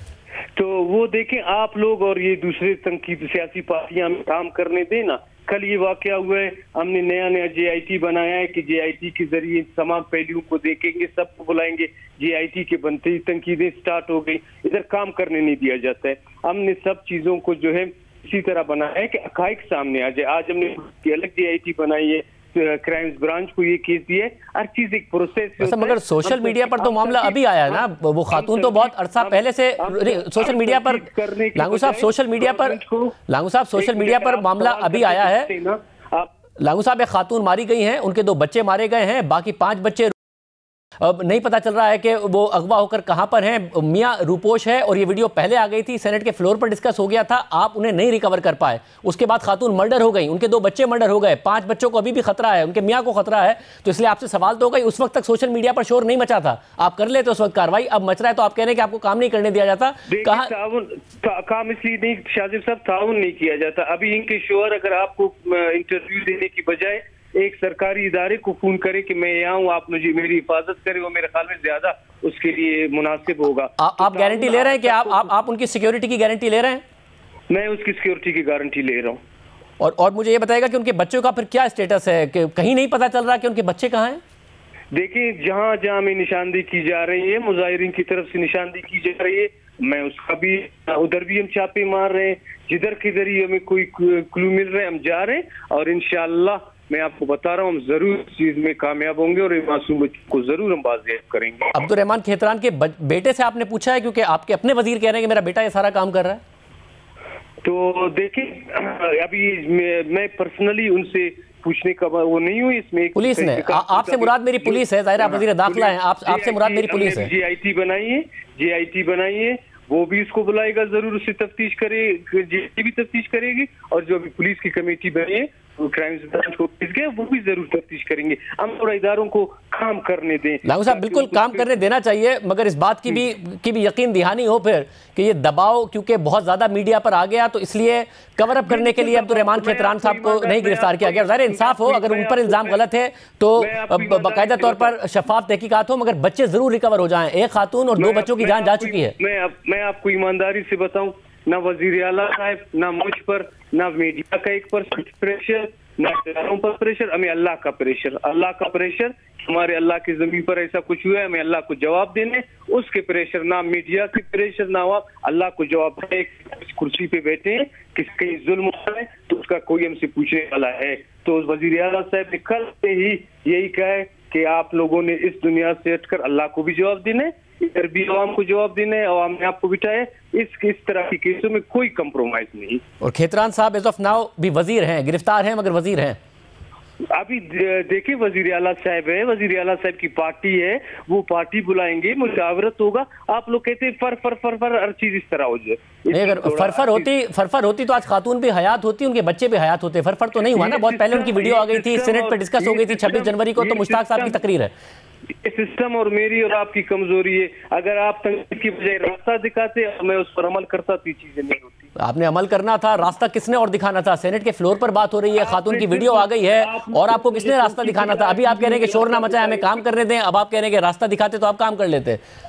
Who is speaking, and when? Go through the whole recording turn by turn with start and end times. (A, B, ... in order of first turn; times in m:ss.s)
0:00.6-0:33.2 A
0:25.6-0:32.8 B
0:33.3-0:35.5 B
0:33.8-0:36.3 A
0:36.6-0:40.1 B
0:41.0-1:00.5 B
1:00.1-1:15.3 A
1:13.8-1:16.8 B
1:17.5-1:19.2 A
1:19.8-1:24.2 B
1:24.9-1:41.8 A
1:41.7-1:46.4 B
1:47.6-2:11.8 A
1:53.2-1:57.3 B
2:10.6-2:29.2 B
2:18.6-2:22.8 A
2:23.6-2:25.0 A
2:28.0-3:02.8 A
3:03.0-3:06.2 B
3:07.1-3:17.1 A
3:16.1-3:24.7 B
3:20.5-3:24.4 A
3:25.4-3:31.9 A
3:32.0-3:42.2 B
3:35.3-3:39.8 A